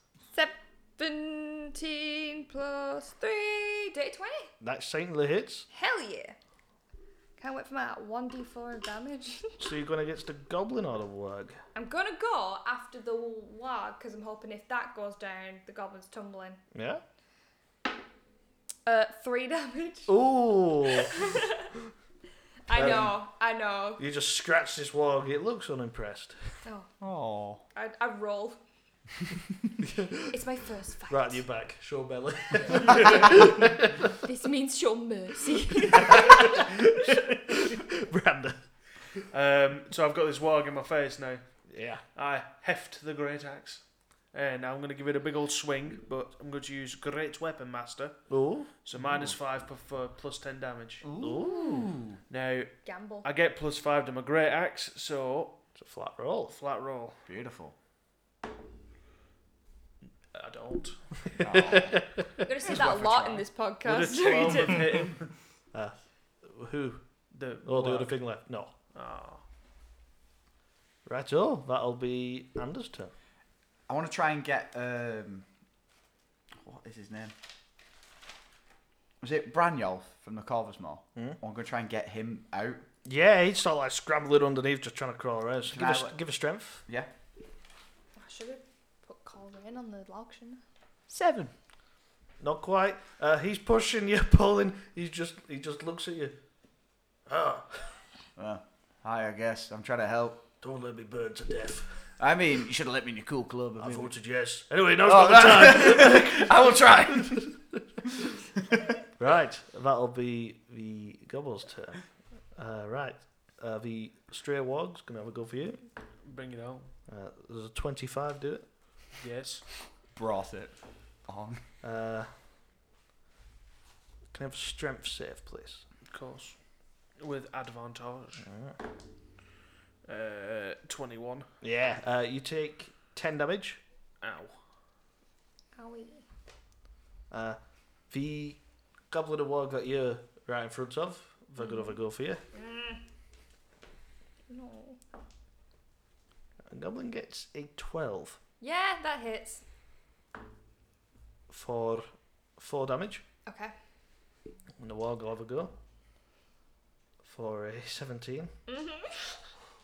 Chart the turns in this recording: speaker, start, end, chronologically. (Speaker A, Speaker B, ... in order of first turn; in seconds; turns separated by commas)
Speaker A: 0.3-4.5, Speaker B: 4.6-5.7, Speaker A: 5.7-6.3, Speaker A: 7.4-9.6, Speaker B: 9.6-11.6, Speaker A: 11.7-16.6, Speaker B: 16.7-17.0, Speaker A: 18.8-20.1, Speaker B: 20.1-21.1, Speaker A: 20.9-21.7, Speaker A: 22.7-24.0, Speaker B: 22.7-23.1, Speaker B: 24.0-26.4, Speaker A: 26.6-26.9, Speaker C: 27.0-27.6, Speaker A: 27.7-28.6, Speaker B: 29.8-30.3, Speaker A: 30.3-31.4, Speaker B: 31.1-34.1, Speaker A: 32.9-33.4, Speaker A: 34.2-36.7, Speaker B: 35.9-38.6, Speaker D: 39.3-41.4, Speaker B: 41.7-42.0, Speaker D: 42.1-43.8, Speaker D: 44.3-48.2, Speaker B: 48.3-48.7, Speaker D: 48.8-51.0, Speaker C: 49.0-49.3, Speaker C: 51.0-52.2, Speaker B: 51.2-51.9, Speaker D: 52.3-55.5, Speaker A: 52.8-53.3, Speaker B: 55.7-56.5, Speaker D: 56.5-57.2, Speaker C: 57.2-57.7, Speaker D: 60.3-61.0, Speaker B: 61.4-62.3, Speaker C: 61.4-62.0, Speaker A: 62.4-65.0, Speaker C: 62.6-63.5, Speaker D: 63.8-65.2, Speaker B: 65.7-67.0, Speaker D: 67.3-68.1, Speaker B: 67.6-68.7, Speaker D: 68.9-69.4, Speaker B: 71.0-73.1, Speaker C: 73.9-75.5, Speaker C: 76.6-77.3, Speaker C: 79.2-82.8, Speaker B: 83.0-86.8, Speaker C: 85.7-86.2, Speaker A: 88.2-90.6, Speaker B: 91.1-91.5, Speaker B: 92.4-96.3, Speaker B: 97.2-98.0, Speaker C: 98.3-100.5, Speaker B: 100.6-102.0, Speaker C: 102.2-104.1, Speaker B: 103.8-107.5, Speaker C: 105.0-107.5, Speaker B: 109.2-112.0, Speaker B: 112.5-115.8, Speaker D: 116.2-116.9, Speaker B: 117.1-118.6, Speaker D: 119.2-119.6, Speaker C: 120.1-121.6, Speaker B: 121.8-122.3, Speaker B: 124.3-125.8, Speaker D: 126.1-126.5, Speaker D: 127.2-128.4, Speaker B: 128.4-128.8, Speaker D: 130.1-131.5, Speaker B: 131.6-133.8, Speaker D: 134.2-134.6, Speaker A: 135.8-136.2, Speaker B: 137.3-137.6, Speaker B: 138.1-142.4, Speaker A: 141.6-142.0, Speaker A: 142.5-143.0, Speaker A: 144.5-145.0, Speaker B: 146.7-148.4, Speaker A: 148.6-149.6, Speaker B: 151.5-153.2, Speaker A: 153.4-153.7, Speaker B: 154.8-155.7, Speaker B: 157.2-158.5, Speaker A: 158.7-159.2